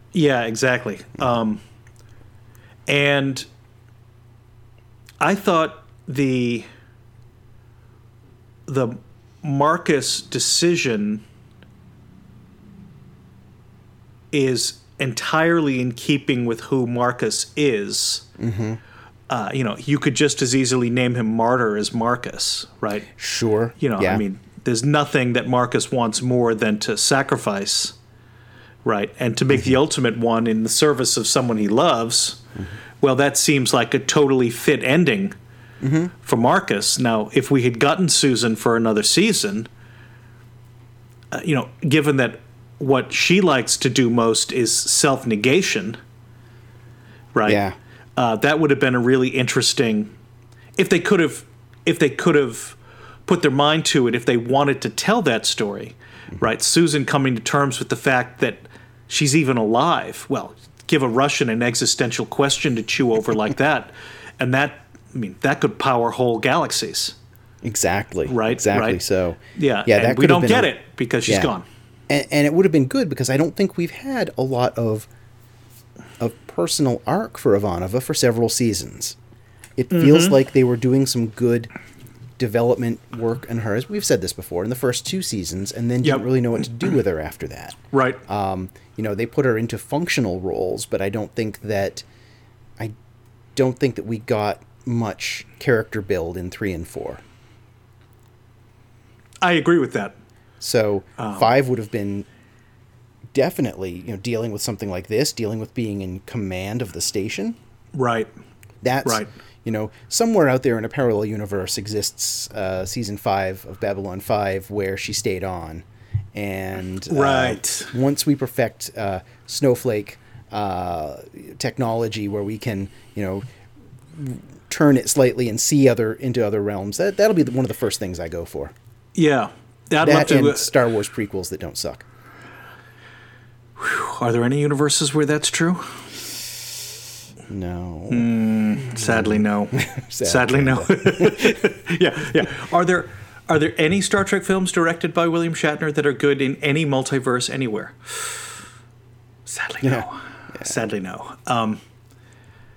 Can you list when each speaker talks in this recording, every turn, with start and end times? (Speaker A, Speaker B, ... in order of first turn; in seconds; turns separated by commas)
Speaker A: 0.1-1.6, Speaker A: 2.9-3.5, Speaker A: 5.2-6.7, Speaker A: 8.7-11.2, Speaker A: 14.3-18.3, Speaker B: 18.4-18.8, Speaker A: 19.3-23.1, Speaker B: 23.1-24.2, Speaker A: 23.8-27.9, Speaker A: 28.9-32.4, Speaker A: 33.0-35.4, Speaker B: 35.8-36.1, Speaker A: 36.2-39.7, Speaker A: 41.3-46.0, Speaker A: 47.4-47.6, Speaker B: 47.5-47.8, Speaker A: 48.2-50.1, Speaker A: 50.8-67.2, Speaker B: 67.6-70.7, Speaker A: 68.3-69.0, Speaker A: 69.5-71.7, Speaker B: 71.3-71.5, Speaker B: 72.1-75.1, Speaker B: 76.2-79.2, Speaker B: 79.8-81.7, Speaker A: 79.9-80.4, Speaker B: 82.4-92.0, Speaker A: 87.9-88.2, Speaker B: 93.5-97.2, Speaker A: 99.4-100.2, Speaker B: 100.6-102.3, Speaker A: 101.2-101.5, Speaker B: 103.3-107.6, Speaker A: 108.0-108.3, Speaker B: 108.8-123.5, Speaker A: 109.0-109.3, Speaker A: 117.1-117.9, Speaker B: 124.1-128.7, Speaker A: 129.2-130.7, Speaker B: 130.0-132.1, Speaker A: 133.8-136.0, Speaker B: 137.5-138.3, Speaker A: 138.1-148.6, Speaker B: 138.8-141.6, Speaker A: 149.5-151.8, Speaker B: 149.8-150.7